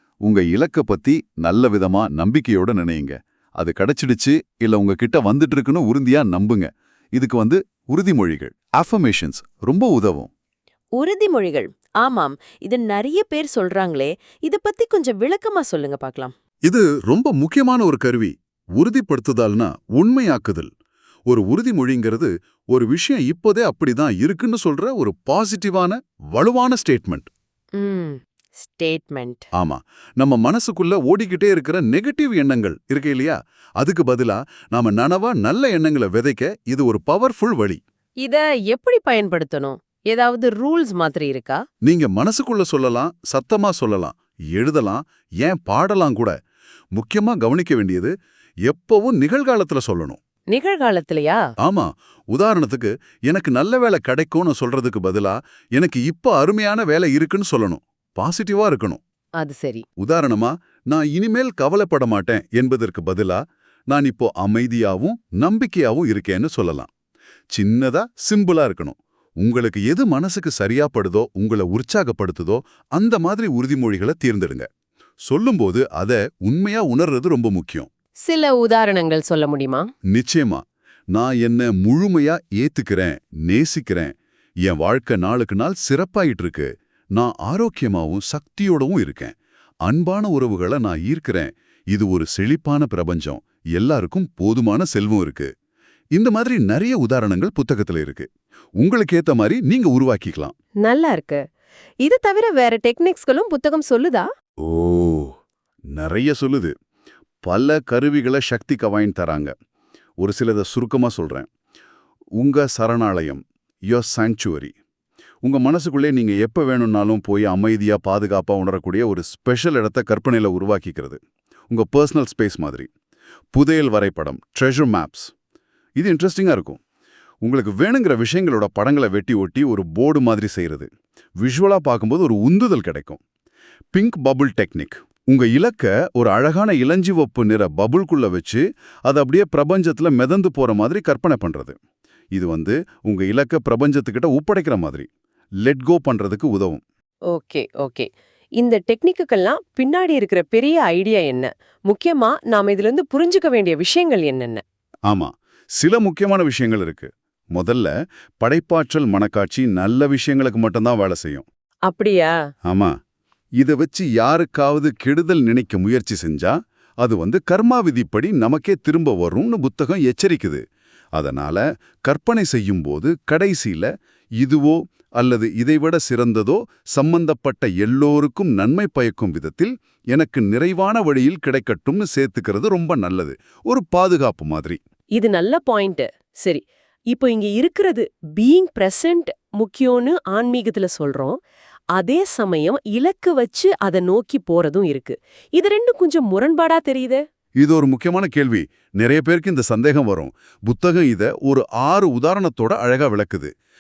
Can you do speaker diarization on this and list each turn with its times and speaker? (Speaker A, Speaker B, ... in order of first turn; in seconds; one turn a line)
Speaker A: 0.3-10.3
Speaker B: 11.0-16.3
Speaker C: 13.2-13.9
Speaker C: 14.5-16.3
Speaker A: 16.7-20.7
Speaker A: 21.3-27.3
Speaker C: 27.8-29.4
Speaker A: 29.6-37.8
Speaker C: 38.2-41.6
Speaker A: 41.8-46.4
Speaker A: 47.0-48.1
Speaker A: 48.7-50.2
Speaker C: 50.5-51.4
Speaker A: 51.6-59.0
Speaker C: 59.4-59.9
Speaker A: 60.0-66.9
Speaker A: 67.5-74.7
Speaker A: 75.3-77.9
Speaker C: 78.3-79.9
Speaker A: 80.1-80.6
Speaker A: 81.1-84.1
Speaker A: 84.7-89.3
Speaker A: 89.9-95.5
Speaker A: 96.2-98.3
Speaker A: 98.8-100.5
Speaker C: 100.9-101.4
Speaker C: 102.0-104.3
Speaker A: 104.6-105.3
Speaker A: 106.0-106.7
Speaker A: 107.5-109.5
Speaker A: 110.2-111.5
Speaker A: 112.4-114.7
Speaker A: 115.4-122.9
Speaker A: 123.5-125.3
Speaker A: 126.0-126.8
Speaker A: 127.4-130.9
Speaker A: 131.4-133.2
Speaker A: 133.9-141.8
Speaker A: 142.3-145.1
Speaker A: 145.7-146.8
Speaker C: 147.3-154.6
Speaker A: 155.1-161.4
Speaker C: 161.9-162.3
Speaker A: 162.7-162.9
Speaker A: 163.6-170.6
Speaker A: 171.2-184.8
Speaker C: 185.2-191.4
Speaker C: 191.9-197.2
Speaker A: 197.6-203.5